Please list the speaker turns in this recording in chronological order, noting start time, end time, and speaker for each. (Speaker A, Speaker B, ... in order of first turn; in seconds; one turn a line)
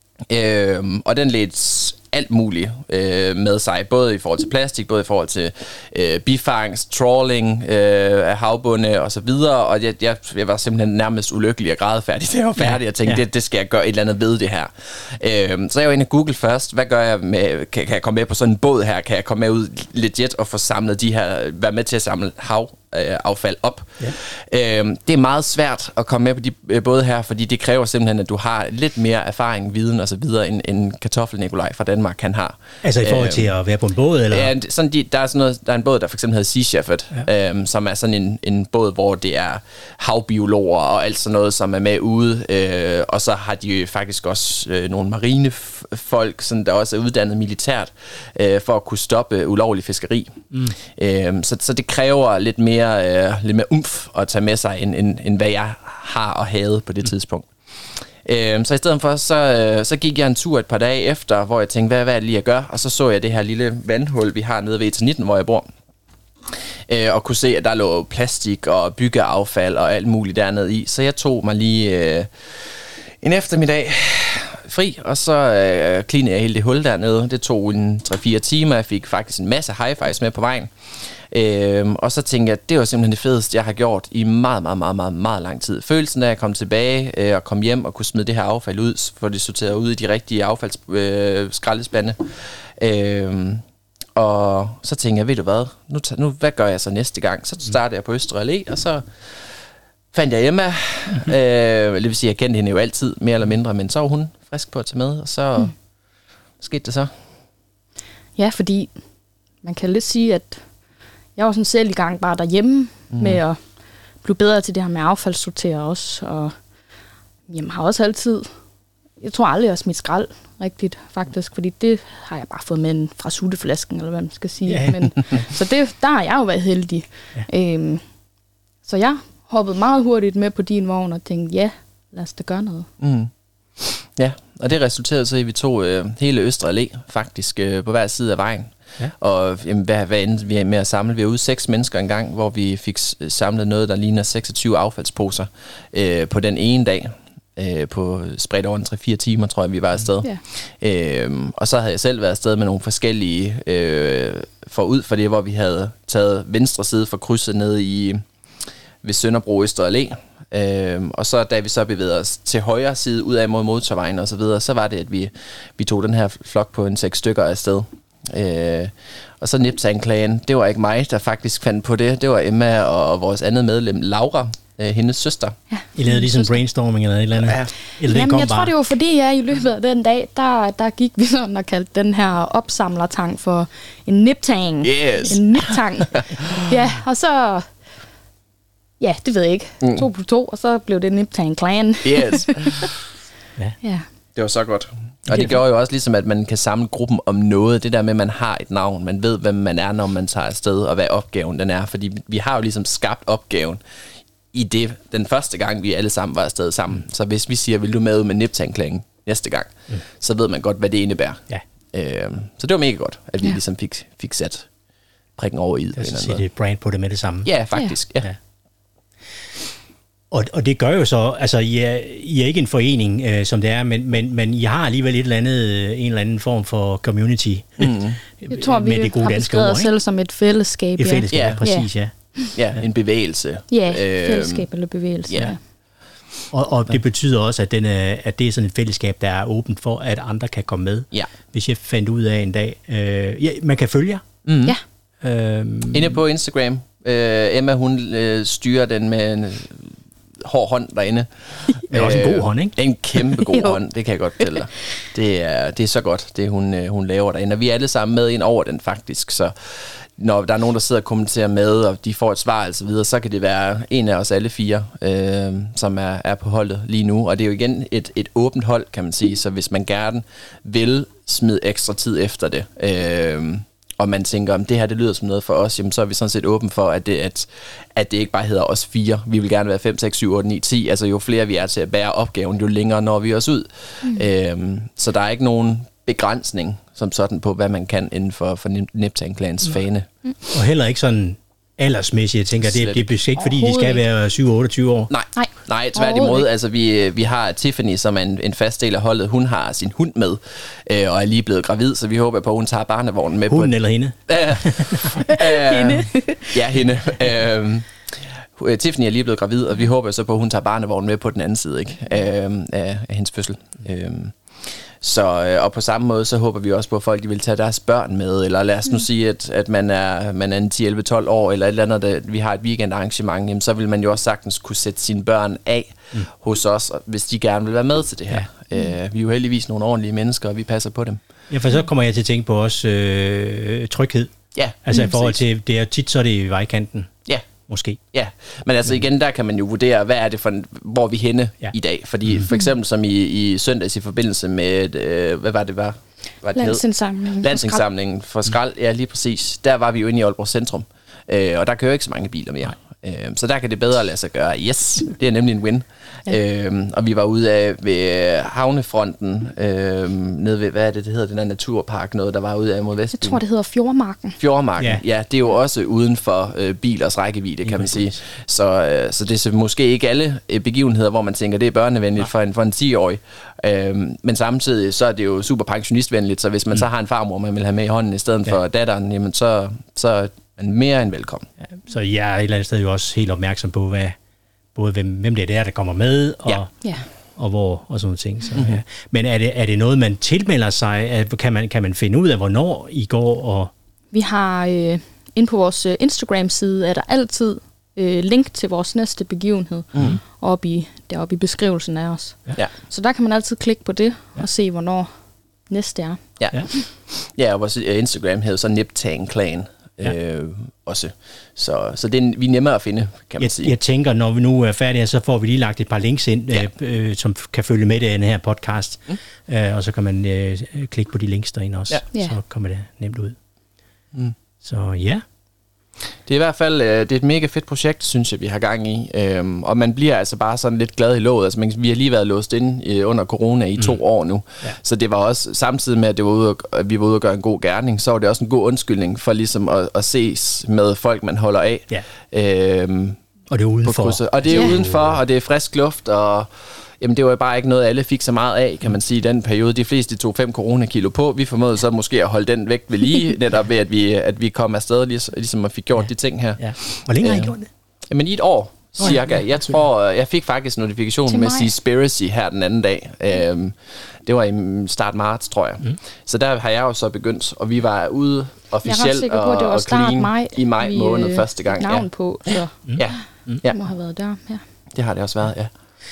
Speaker A: 0.3-33.5
Speaker B: 12.6-13.2
Speaker B: 32.8-34.5
Speaker A: 34.3-65.7
Speaker A: 66.5-93.6
Speaker A: 94.2-99.6
Speaker A: 100.1-105.8
Speaker A: 106.6-107.1
Speaker C: 108.4-109.0
Speaker C: 109.6-110.7
Speaker C: 111.4-113.6
Speaker C: 114.2-116.6
Speaker C: 117.5-118.5
Speaker C: 119.2-128.0
Speaker B: 124.7-125.5
Speaker C: 128.8-132.9
Speaker A: 133.0-158.2
Speaker A: 159.0-175.6
Speaker C: 175.7-176.6
Speaker B: 175.9-178.7
Speaker A: 177.4-177.7
Speaker C: 178.0-187.7
Speaker A: 184.8-185.6
Speaker A: 186.2-186.6
Speaker C: 189.0-192.9
Speaker A: 192.0-193.0
Speaker A: 194.3-203.8
Speaker A: 204.5-214.7
Speaker A: 215.4-216.4
Speaker B: 216.0-217.5
Speaker A: 217.4-218.3
Speaker B: 220.3-229.9
Speaker A: 227.8-228.2
Speaker C: 228.5-232.5
Speaker B: 231.0-232.1
Speaker A: 231.3-231.6
Speaker A: 232.5-234.7
Speaker C: 233.7-235.6
Speaker A: 235.3-235.6
Speaker B: 236.5-244.2
Speaker A: 244.4-244.8
Speaker B: 245.2-246.2
Speaker A: 245.9-290.1
Speaker B: 251.9-252.8
Speaker C: 253.3-253.8
Speaker B: 290.5-295.1
Speaker A: 292.6-293.1
Speaker C: 293.4-294.0
Speaker A: 295.1-303.8
Speaker C: 295.4-296.5
Speaker B: 303.5-305.2
Speaker A: 304.3-331.2
Speaker C: 305.2-306.6
Speaker B: 331.5-337.1
Speaker A: 334.5-335.4
Speaker C: 334.9-335.2
Speaker B: 337.7-338.0
Speaker A: 338.1-346.8
Speaker C: 346.6-347.8
Speaker A: 347.4-363.4
Speaker C: 363.2-364.4
Speaker A: 364.4-381.5
Speaker B: 367.6-368.1
Speaker B: 381.7-384.2
Speaker B: 384.8-386.7
Speaker B: 387.4-393.7
Speaker A: 388.5-388.8
Speaker C: 394.1-405.1
Speaker C: 405.7-406.8
Speaker A: 406.4-413.8
Speaker B: 413.4-423.4
Speaker B: 424.6-425.2
Speaker A: 426.3-443.2
Speaker B: 443.5-444.9
Speaker A: 443.9-446.5
Speaker A: 447.0-457.5
Speaker B: 456.6-457.7
Speaker A: 458.1-473.9
Speaker B: 459.0-459.4
Speaker C: 461.3-461.7
Speaker C: 468.9-474.6
Speaker B: 472.9-473.6
Speaker A: 474.9-475.7